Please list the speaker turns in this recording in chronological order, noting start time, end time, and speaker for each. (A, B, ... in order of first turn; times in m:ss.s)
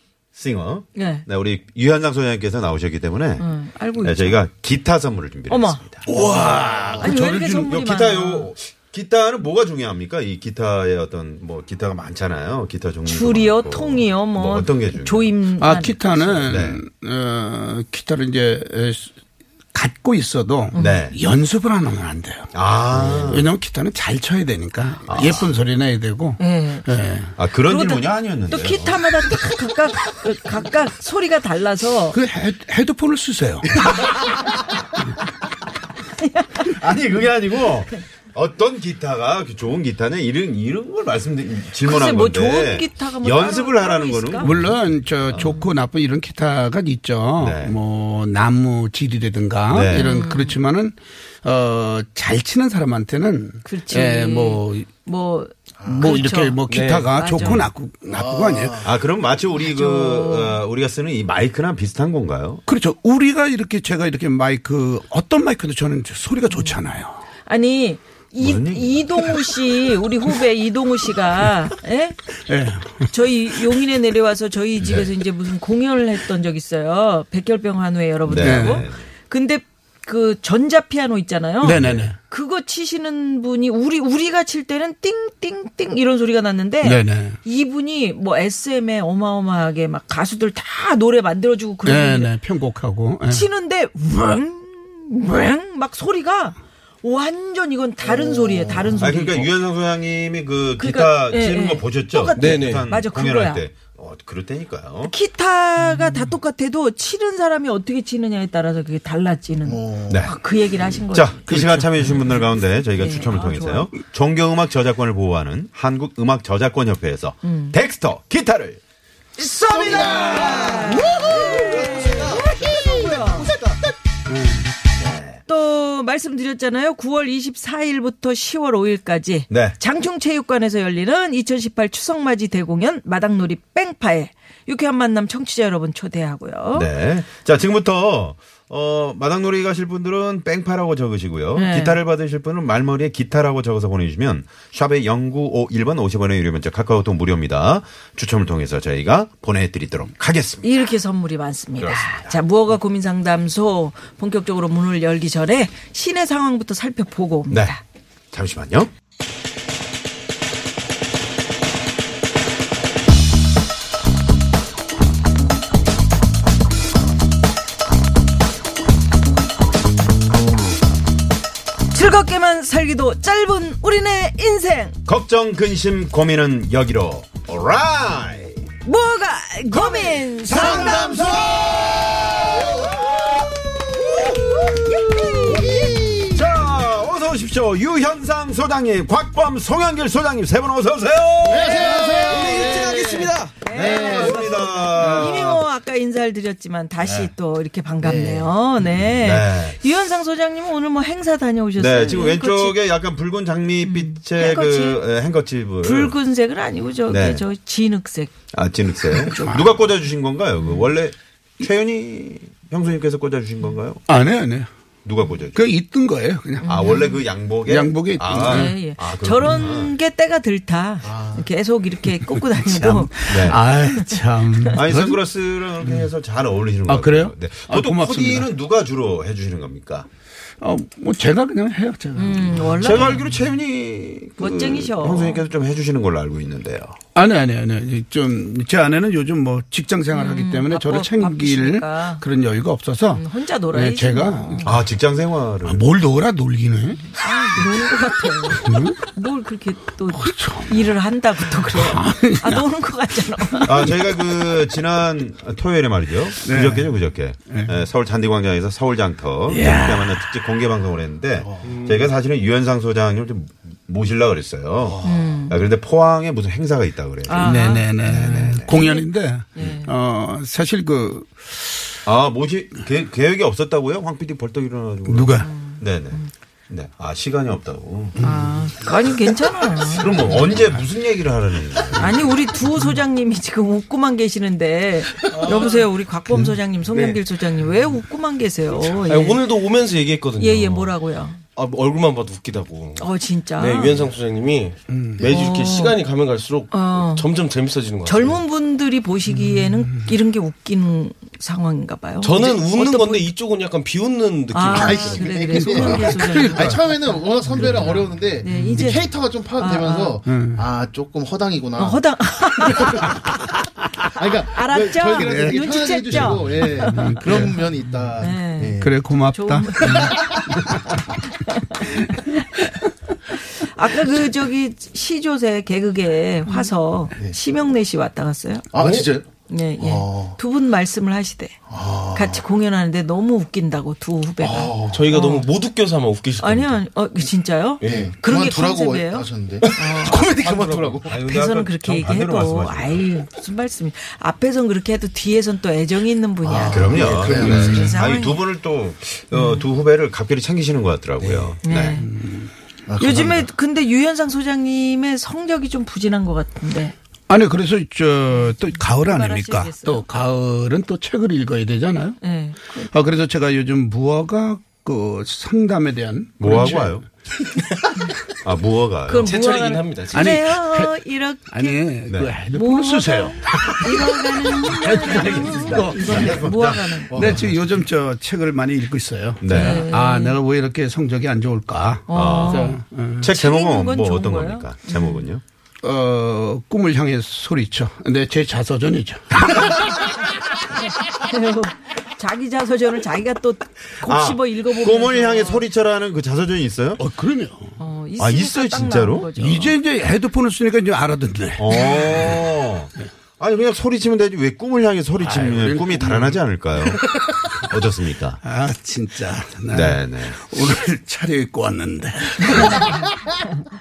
0:00.3-0:03.4 A
0:01.0-0:01.3 B
0:03.4-0:04.4 B
0:04.0-0:07.0 A
0:05.5-0:05.8 B
0:06.1-0:07.7 C
0:07.0-0:08.5 B
0:07.6-0:15.4 A
0:13.0-0:16.3 B
0:15.6-0:19.1 C
0:16.4-0:16.8 A
0:19.7-0:22.5 C
0:20.7-0:21.0 B
0:20.7-0:21.2 A
0:22.5-0:23.5 A
0:23.1-0:27.3 C
0:25.1-0:25.5 A
0:26.4-0:26.9 B
0:27.4-0:29.0 A
0:27.6-0:32.2 B
0:32.1-0:34.1 C
0:36.2-0:36.6 B
0:36.6-0:45.7 A
0:41.8-0:44.5 B
0:44.4-0:54.9 C
0:47.4-0:47.8 A
0:49.7-0:50.1 A
0:49.9-0:50.6 B
0:53.6-0:57.6 B
0:55.8-0:56.2 D
0:55.9-0:58.8 C
0:56.7-0:57.1 E
0:58.1-0:58.9 D
0:58.8-1:02.6 A
0:59.6-1:00.6 B
1:02.7-1:07.2 C
1:06.5-1:06.8 B
1:07.4-1:12.2 B
1:08.4-1:09.0 A
1:12.5-1:13.8 C
1:13.1-1:32.3 B
1:18.3-1:19.0 A
1:18.4-1:18.9 C
1:21.6-1:22.2 C
1:21.8-1:22.1 A
1:26.8-1:27.4 C
1:31.8-1:33.5 C
1:33.3-1:39.5 B
1:38.0-1:39.0 D
1:39.0-1:45.1 A
1:40.8-1:43.6 B
1:42.4-1:42.8 E
1:45.1-1:51.4 B
1:49.6-1:50.3 D
1:51.1-1:58.8 A
1:51.5-1:52.2 C
1:53.0-1:53.9 B
1:57.4-1:57.8 B
1:59.4-2:03.5 B
1:59.7-2:02.2 D
2:00.1-2:03.8 E
2:04.3-2:04.6 C
2:05.0-2:05.4 A
2:05.5-2:16.9 B
2:09.5-2:09.8 A
2:16.7-2:30.8 A
2:21.5-2:22.0 B
2:30.6-2:37.8 B
2:31.8-2:32.4 A
2:37.5-2:37.8 A
2:38.3-2:38.9 A
2:51.9-2:55.0 B
2:55.1-2:58.7 A
2:58.8-3:01.1 B
2:59.8-3:05.1 A
3:00.5-3:03.4 D
3:04.0-3:06.5 D
3:04.8-3:06.0 B
3:06.3-3:12.4 A
3:11.4-3:14.5 D
3:11.5-3:13.0 B
3:11.9-3:13.6 E
3:13.6-3:22.8 B
3:13.6-3:15.6 A
3:17.0-3:17.3 A
3:18.0-3:18.5 D
3:19.0-3:19.8 A
3:21.8-3:26.1 A
3:23.8-3:25.0 B
3:25.8-3:28.3 B
3:27.1-3:27.4 A
3:28.5-3:34.0 A
3:29.3-3:29.7 C
3:30.6-3:30.9 B
3:34.1-3:34.7 C
3:35.0-3:35.6 A
3:35.5-3:37.0 C
3:36.6-3:37.2 B
3:36.6-3:39.9 A
3:37.6-3:38.8 C
3:38.3-3:44.8 B
3:41.0-3:41.5 D
3:42.4-3:45.2 C
3:43.3-3:43.6 A
3:44.8-3:50.1 A
3:45.8-3:46.1 C
3:46.9-3:48.5 C
3:50.6-3:53.2 C
3:52.2-3:53.2 B
3:52.8-3:57.0 A
3:54.4-3:55.4 B
3:57.1-4:04.8 C
4:00.1-4:02.2 B
4:03.1-4:04.8 B
4:04.6-4:05.8 A
4:05.6-4:07.1 C
4:07.0-4:14.0 B
4:08.5-4:09.0 C
4:10.1-4:10.9 C
4:11.5-4:12.7 C
4:13.6-4:28.7 A
4:16.4-4:16.9 C
4:17.5-4:17.8 C
4:19.5-4:20.2 C
4:21.4-4:21.7 D
4:21.6-4:22.1 E
4:25.0-4:25.6 B
4:27.3-4:27.9 B
4:27.4-4:31.8 C
4:28.7-4:29.9 B
4:32.1-4:38.2 A
4:35.1-4:35.5 C
4:35.4-4:36.3 B
4:38.2-4:38.5 C
4:38.2-4:40.1 B
4:39.8-4:42.4 A
4:42.0-4:49.4 B
4:45.4-4:45.8 E
4:49.1-4:50.9 E
4:50.4-4:51.4 B
4:51.6-4:58.4 E
4:53.0-4:54.1 B
4:54.9-4:55.2 C
4:55.2-4:56.0 B
4:56.7-4:57.3 B
4:58.0-5:03.3 B
4:59.3-5:00.1 C
5:02.2-5:05.4 E
5:04.5-5:09.0 B
5:04.7-5:12.0 D
5:05.5-5:06.8 C
5:07.5-5:09.0 C
5:09.6-5:10.2 B
5:10.3-5:10.6 C
5:11.8-5:13.2 B
5:12.6-5:13.3 D
5:13.8-5:14.1 C
5:14.2-5:19.0 D
5:14.5-5:17.4 B
5:15.1-5:17.6 C
5:18.2-5:20.4 B
5:18.8-5:20.8 C
5:19.8-5:20.7 D
5:21.2-5:22.6 B
5:21.8-5:22.7 C
5:23.3-5:28.7 B
5:28.7-5:29.3 D
5:28.8-5:29.1 E
5:29.5-5:31.6 B
5:29.8-5:30.4 D
5:31.7-5:32.4 D
5:32.1-5:35.5 B
5:34.4-5:35.0 D
5:34.9-5:36.8 E
5:36.4-5:40.3 B
5:37.8-5:38.1 E
5:37.8-5:41.2 D
5:40.4-5:41.0 E
5:41.0-5:43.1 A
5:41.1-5:48.4 B
5:46.4-5:47.9 D
5:46.7-5:52.0 A
5:47.3-5:47.8 C
5:49.3-5:49.6 B
5:51.2-5:52.5 C
5:51.6-5:52.1 B
5:52.9-5:53.5 D
5:53.0-5:56.9 B
5:57.3-6:02.2 C
5:58.3-6:00.1 B
6:02.2-6:02.9 B
6:02.9-6:07.1 C
6:06.4-6:07.0 A
6:08.4-6:09.3 A
6:09.1-6:11.8 B
6:09.2-6:10.3 E
6:10.1-6:11.0 C
6:11.5-6:16.4 C
6:12.5-6:17.2 B
6:15.4-6:17.6 A
6:17.1-6:23.3 C
6:19.4-6:19.9 A
6:19.5-6:20.4 B
6:22.1-6:25.2 B
6:22.1-6:25.4 A
6:25.8-6:30.2 C
6:31.1-6:35.7 B
6:34.0-6:37.0 A
6:37.0-6:37.7 C
6:37.8-6:39.8 B
6:38.2-6:39.3 A
6:39.3-6:42.4 C
6:41.6-6:47.0 A
6:41.7-6:42.3 B
6:45.2-6:47.7 C
6:47.6-6:48.4 A
6:48.4-6:53.0 C
6:49.7-6:50.4 A
6:52.4-6:53.0 B